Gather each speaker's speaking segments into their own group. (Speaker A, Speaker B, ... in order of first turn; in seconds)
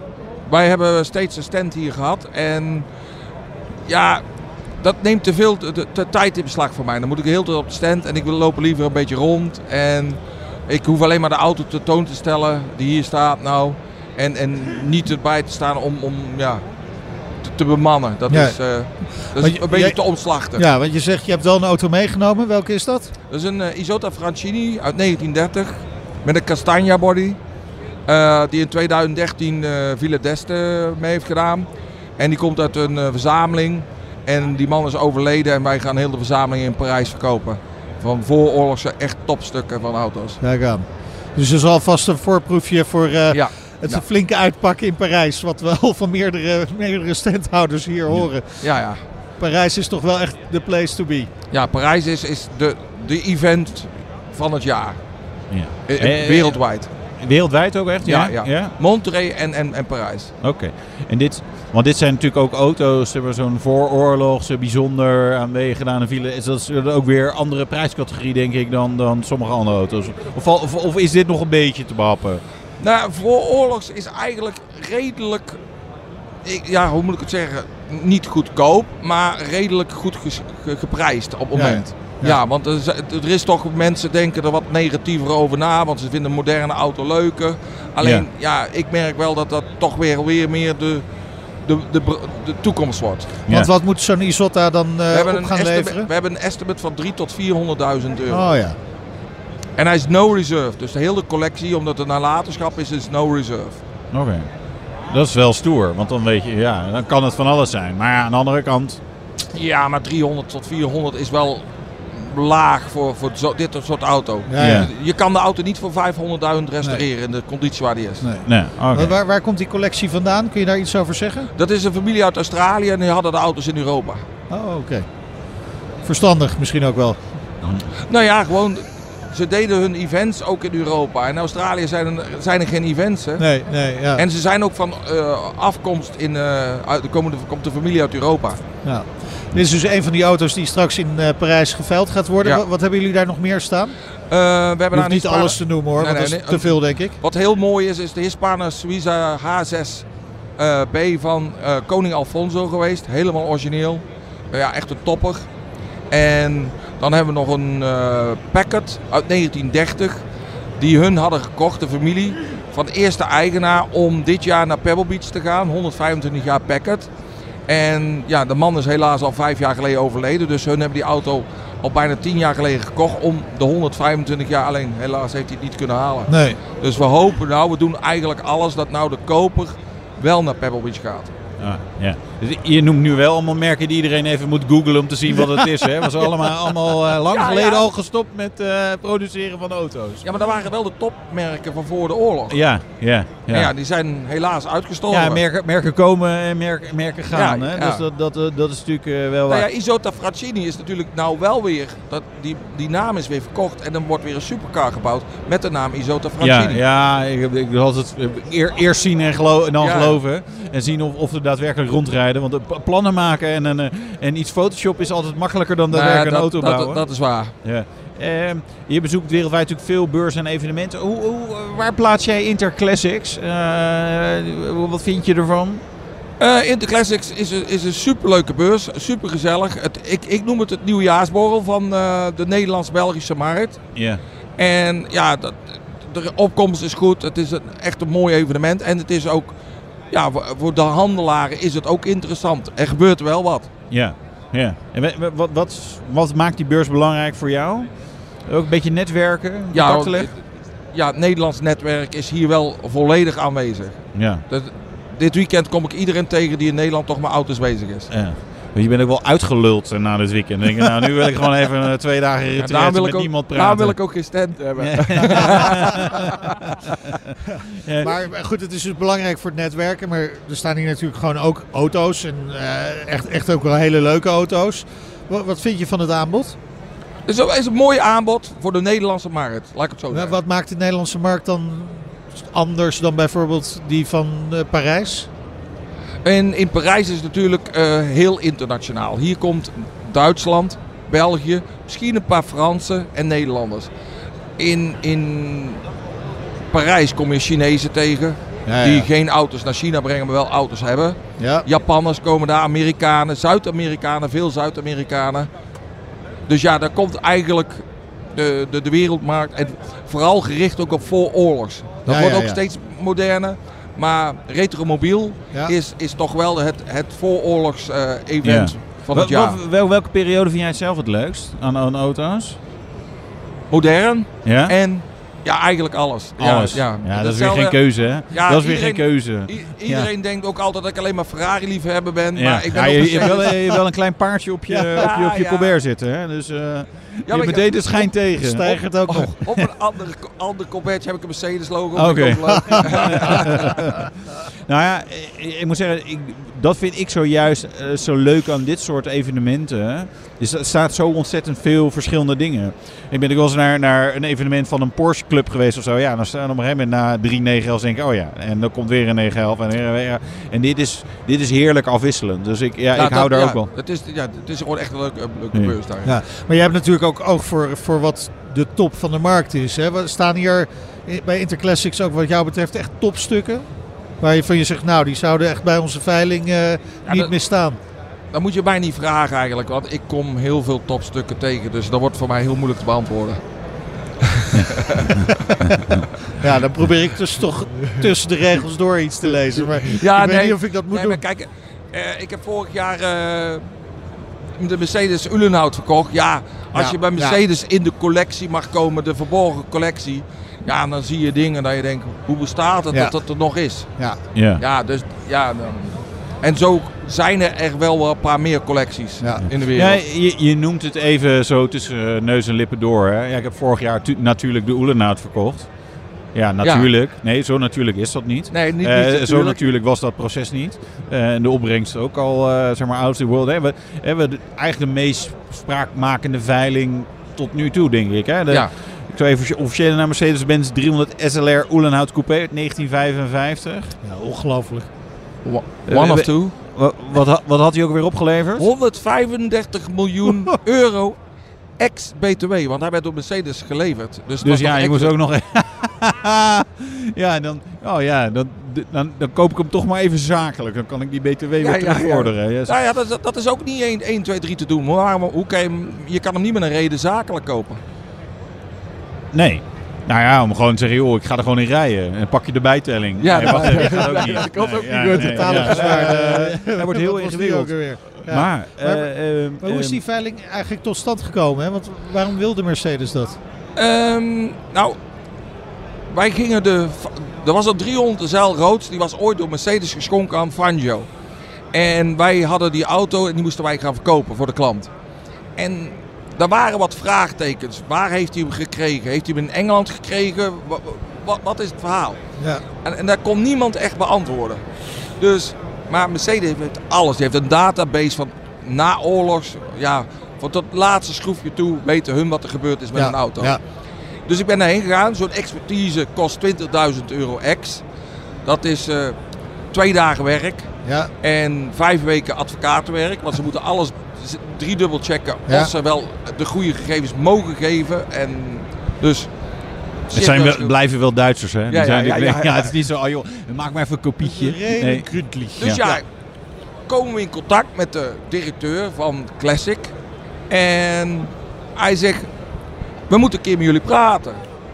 Speaker A: 0.4-2.9, 3.9-16.7, 17.4-20.6, 23.3-27.4, 28.1-40.4, 43.3-44.0, 48.6-49.0, 51.5-56.9, 58.0-60.3, 72.8-75.6, 76.4-91.1, 91.6-93.3, 95.1-98.5, 99.8-103.8, 109.5-118.3, 121.5-124.2, 128.1-133.5, 134.1-138.6, 144.3-155.5, 156.1-160.2, 160.8-167.1, 167.7-181.3, 187.3-187.9, 190.2-192.6, 193.5-195.4, 197.3-198.0, 199.5-206.8, 209.8-210.2, 215.9-217.5, 226.4-233.9, 234.6-239.6, 240.1-243.7, 249.7-258.1, 262.6-266.7, 277.2-280.4, 286.2-293.9, 294.6-295.8, 296.7-305.5, 306.5-319.6, 323.7-333.6, 334.9-335.7, 337.3-338.1, 339.1-343.9, 362.9-366.1, 377.1-377.3, 378.3-383.4, 384.4-385.1, 389.8-393.7, 394.6-410.0, 416.6-416.9, 418.5-419.6, 435.4-436.5, 438.6-441.2, 441.8-445.1, 451.6-457.8, 463.2-466.4, 473.8-475.0, 476.1-481.1, 481.7-484.9, 485.6-492.2, 492.8-503.6, 504.3-507.8, 508.4-519.3, 520.1-520.7, 521.7-522.7, 525.6-526.1, 526.9-529.9, 530.5-532.3, 533.1-534.4
Speaker B: 18.3-23.1, 40.4-51.3, 81.5-82.4, 93.5-96.1, 98.3-98.8, 114.5-114.9, 118.2-121.5, 124.5-125.0, 126.0-127.4, 133.4-134.2, 138.8-144.0, 144.9-147.2, 176.3-176.6, 267.6-276.6, 280.1-285.3, 298.6-299.1, 301.4-301.6, 312.1-312.6, 338.2-339.4, 342.5-343.7, 366.0-373.6, 374.2-377.8, 386.4-391.2, 396.7-397.4, 402.9-404.3, 409.2-409.5, 434.0-434.9, 465.1-473.4, 492.4-492.6, 502.9-503.6, 510.8-511.1, 524.2-526.0
Speaker C: 55.5-58.8, 60.4-72.4, 88.0-88.2, 104.1-104.5, 105.1-109.0, 114.6-114.9, 118.4-119.2, 127.6-127.9, 181.6-190.2, 192.5-193.7, 195.1-199.7, 206.4-225.8, 233.9-234.2, 243.9-250.3, 254.1-254.4, 258.1-268.1, 318.4-322.6, 324.4-324.8, 326.4-329.6, 332.3-338.8, 341.9-363.7, 404.3-404.6, 409.4-433.9, 435.9-438.7, 444.4-452.8, 459.3-470.0, 520.1-525.9